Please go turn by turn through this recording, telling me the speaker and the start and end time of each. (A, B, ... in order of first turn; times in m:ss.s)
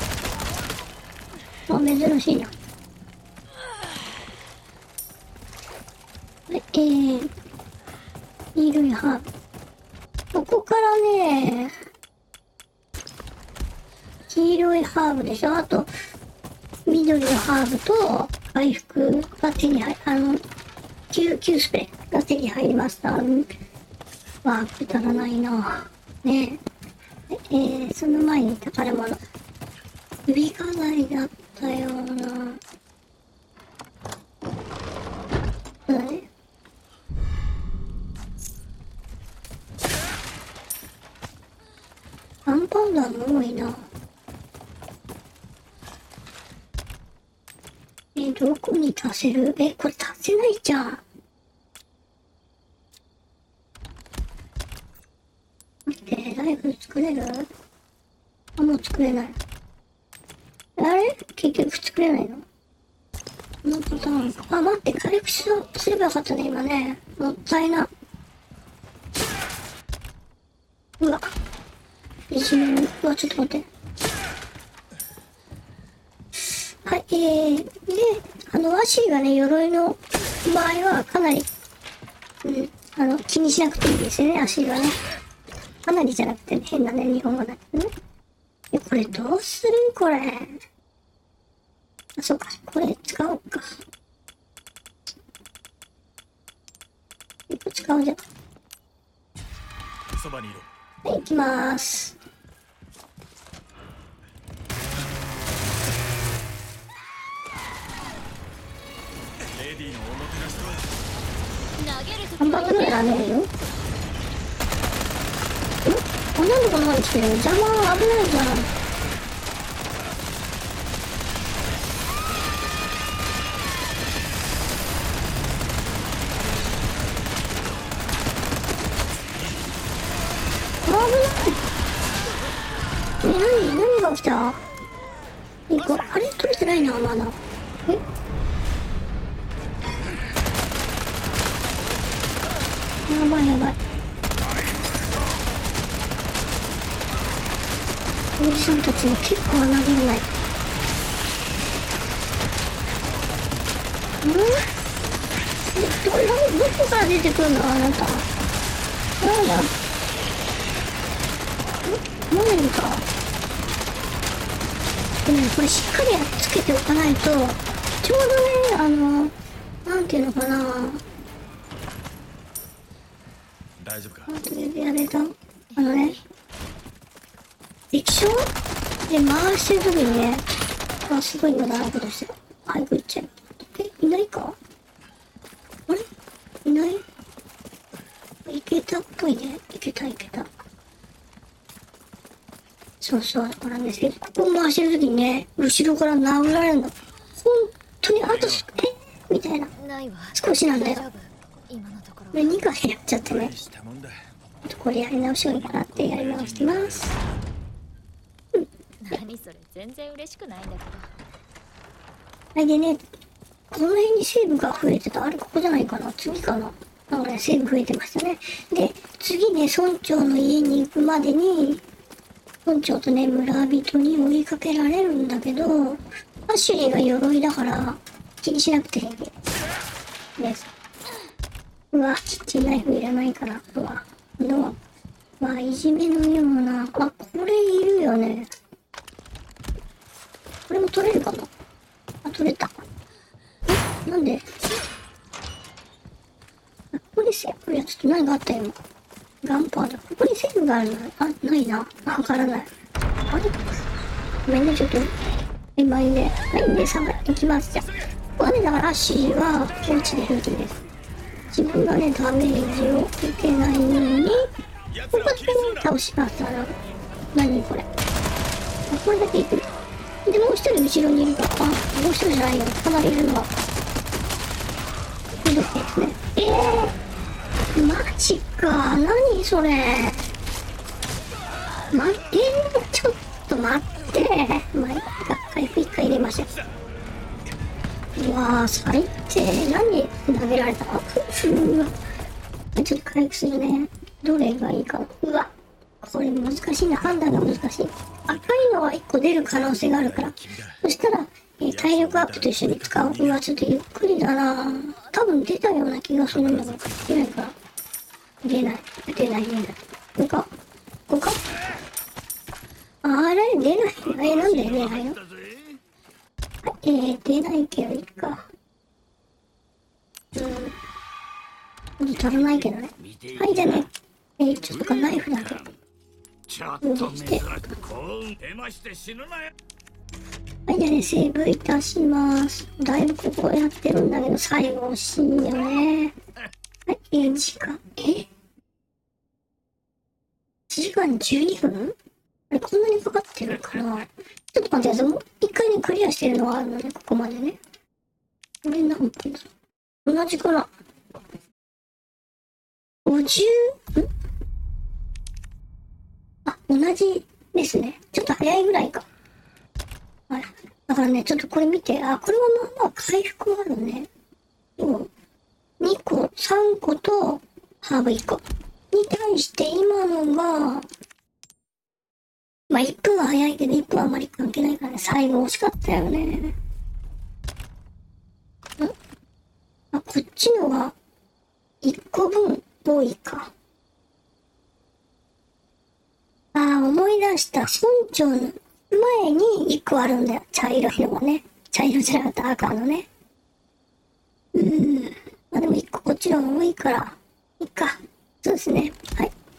0:01.7-0:02.5 A
0:06.5-0:07.3 A
0:08.5-0:09.2 A
0:10.3-0:11.7 A
0:14.3-0:15.9 A
0:16.8-0:20.4 A
0:21.1-0:23.5 A
0:24.4-0:26.6 A
0:27.3-0:29.2 A
0:30.2-0:32.6 A
0:35.9-0:36.3 A
0:42.4-0:43.9 A
0:48.1-0:51.0 A
0:55.9-0:57.5 A
0:58.6-0:59.4 A
1:00.8-1:02.4 A
1:03.6-1:07.9 A
1:11.0-1:11.3 A
1:12.3-1:13.7 A
1:16.5-1:21.5 A
1:22.4-1:25.0 A
1:25.8-1:27.9 A
1:28.7-1:30.6 A
1:32.2-1:33.8 A
1:37.5-1:38.2 A
1:40.2-1:40.7 B
1:41.0-1:42.2 A
1:49.6-1:50.8 B
1:51.7-1:53.3 C
1:52.4-1:53.5 A
1:55.8-1:58.7 A
2:10.8-2:11.6 A
2:13.2-2:14.6 A
2:15.7-2:18.0 A
2:23.0-2:23.8 A
2:28.4-2:30.3 A
2:34.2-2:34.6 A
2:35.7-2:38.3 A
2:39.2-2:39.7 A
2:41.8-2:43.0 A
2:45.2-2:49.3 A
2:49.8-2:51.0 A
2:53.8-2:54.2 B
2:54.2-2:56.2 A
2:57.9-2:58.5 A
2:59.1-3:00.4 A
3:01.1-3:04.6 A
3:06.6-3:07.0 A
3:08.4-3:10.5 A
3:13.0-3:19.7 A
3:19.8-3:22.6 C
3:20.3-3:21.0 A
3:22.3-3:23.6 A
3:23.6-3:24.2 B
3:24.6-3:27.2 A
3:29.0-3:31.1 C
3:32.6-3:33.0 A
3:33.7-3:41.8 A
3:42.6-3:49.3 A
3:50.4-3:50.7 A
3:51.9-3:54.8 A
3:55.4-3:58.5 A
4:00.7-4:01.5 A
4:02.2-4:02.8 A
4:03.9-4:04.4 A
4:06.9-4:08.8 A
4:09.4-4:12.7 A
4:13.2-4:13.6 A
4:14.4-4:15.1 A
4:15.8-4:20.8 A
4:21.5-4:24.5 A
4:25.1-4:26.7 A
4:27.3-4:27.9 A
4:28.9-4:29.7 A
4:30.2-4:33.5 A
4:35.4-4:37.0 A
4:37.7-4:40.3 A
4:41.9-4:46.5 A
4:48.2-4:51.9 A
4:52.7-5:07.5 A
5:08.4-5:10.5 A
5:11.1-5:11.4 A
5:13.0-5:15.2 A
5:14.2-5:15.8 D
5:16.6-5:18.4 A
5:20.3-5:20.8 A
5:22.0-5:25.7 A
5:23.5-5:23.8 D
5:26.5-5:29.5 D
5:26.8-5:27.6 A
5:30.7-5:36.1 A
5:36.9-5:38.3 A
5:40.7-5:41.9 A
5:42.5-5:47.6 A
5:48.6-5:49.5 A
5:50.0-5:50.7 A
5:53.0-5:54.1 A
5:56.4-5:59.0 A
6:00.3-6:04.1 A
6:04.8-6:05.1 A
6:05.8-6:10.8 A
6:12.7-6:16.5 A
6:19.9-6:20.9 A
6:21.8-6:23.5 A
6:26.5-6:33.0 A
6:34.5-6:39.3 A